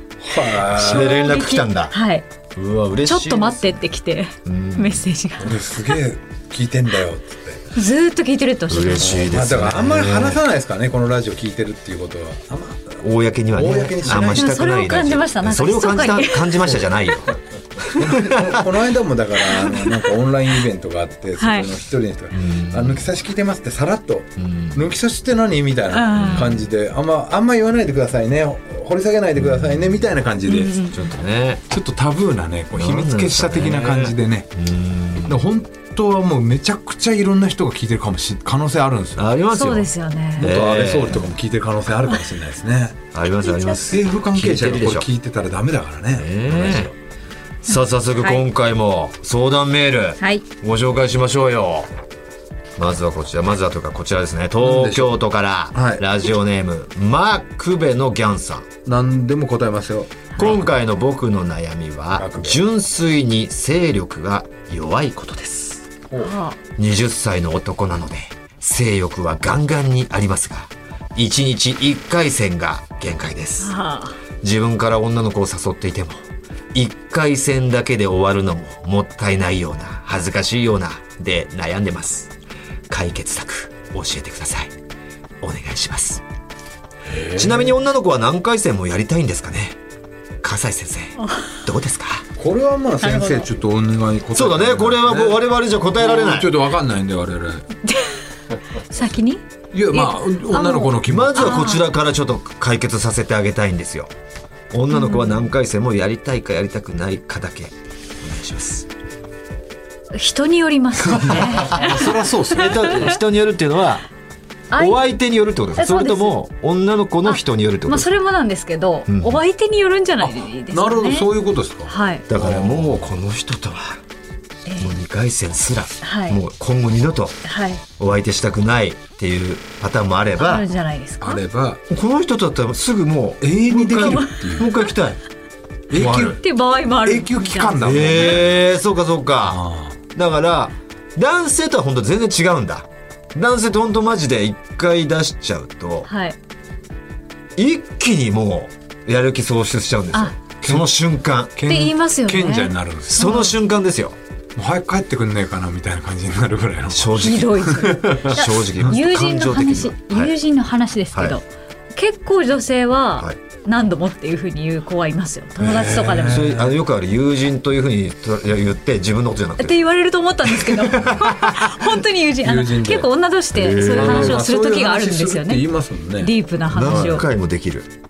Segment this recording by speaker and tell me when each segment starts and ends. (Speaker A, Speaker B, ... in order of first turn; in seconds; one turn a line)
Speaker A: 0.2-1.2
Speaker B: 0.6-1.9
Speaker C: 0.7-2.3
Speaker B: 2.5-3.8
Speaker C: 3.0-5.6
Speaker B: 4.4-5.1
Speaker A: 5.4-7.7
Speaker C: 7.7-9.3
Speaker B: 8.7-10.4
Speaker A: 8.9-13.0
Speaker B: 13.0-18.6
Speaker A: 13.5-14.6
Speaker C: 14.1-16.8
Speaker A: 17.9-30.9
Speaker C: 19.6-19.9
Speaker C: 21.4-21.7
Speaker B: 22.3-23.1
Speaker B: 24.4-24.9
Speaker C: 25.9-26.6
Speaker B: 26.1-26.6
Speaker B: 29.4-30.1
Speaker C: 30.5-31.0
Speaker B: 30.9-31.6
Speaker A: 31.7-34.5
Speaker B: 32.7-35.4
Speaker A: 35.2-39.2
Speaker B: 39.1-41.3
Speaker C: 39.5-40.5
Speaker A: 40.4-43.0
Speaker B: 43.1-45.1
Speaker C: 43.4-43.8
Speaker A: 43.8-46.9
Speaker B: 46.1-46.9
Speaker B: 47.6-51.9
Speaker C: 48.2-48.4
Speaker B: 52.8-58.7
Speaker A: 54.6-55.2
Speaker A: 55.7-56.0
Speaker A: 58.8-60.6
Speaker B: 60.4-65.9
Speaker A: 62.1-62.6
Speaker C: 66.2-66.6
Speaker B: 66.8-73.7
Speaker C: 73.6-74.2
Speaker B: 74.4-76.2
Speaker B: 76.7-82.3
Speaker B: 82.9-84.7
Speaker B: 85.4-86.2
Speaker A: 87.0-87.8
Speaker B: 87.3-89.8
Speaker B: 90.4-92.2
Speaker A: 92.4-95.4
Speaker C: 93.0-93.5
Speaker B: 94.3-96.6
Speaker A: 96.0-97.7
Speaker C: 97.8-101.8
Speaker A: 99.7-101.7
Speaker B: 101.0-104.1
Speaker B: 104.7-108.9
Speaker C: 104.9-105.4
Speaker C: 110.1-112.3
Speaker A: 111.0-113.0
Speaker B: 111.3-114.0
Speaker C: 114.7-115.0
Speaker B: 114.8-118.1
Speaker C: 115.8-116.4
Speaker C: 117.2-122.2
Speaker B: 119.1-119.4
Speaker A: 120.2-123.1
Speaker B: 122.3-124.0
Speaker C: 124.7-124.9
Speaker B: 124.8-127.4
Speaker C: 126.0-126.4
Speaker C: 127.4-127.8
Speaker B: 128.0-130.7
Speaker C: 130.4-131.4
Speaker A: 131.2-131.8
Speaker B: 131.9-135.2
Speaker A: 133.4-134.7
Speaker C: 133.9-134.7
Speaker A: 135.9-136.4
Speaker B: 135.9-136.4
Speaker C: 136.4-138.4
Speaker A: 137.0-138.6
Speaker B: 137.8-146.1
Speaker A: 139.4-140.0
Speaker C: 146.1-146.3
Speaker B: 147.6-151.5
Speaker A: 150.6-150.9
Speaker A: 151.5-153.3
Speaker C: 151.7-153.6
Speaker B: 153.1-154.2
Speaker A: 154.6-157.9
Speaker B: 156.9-160.3
Speaker C: 157.2-161.4
Speaker C: 161.9-166.5
Speaker A: 165.6-166.8
Speaker B: 166.2-169.8
Speaker C: 169.6-177.2
Speaker B: 170.9-171.7
Speaker A: 172.4-173.1
Speaker B: 173.5-174.4
Speaker A: 173.8-177.2
Speaker B: 176.7-177.9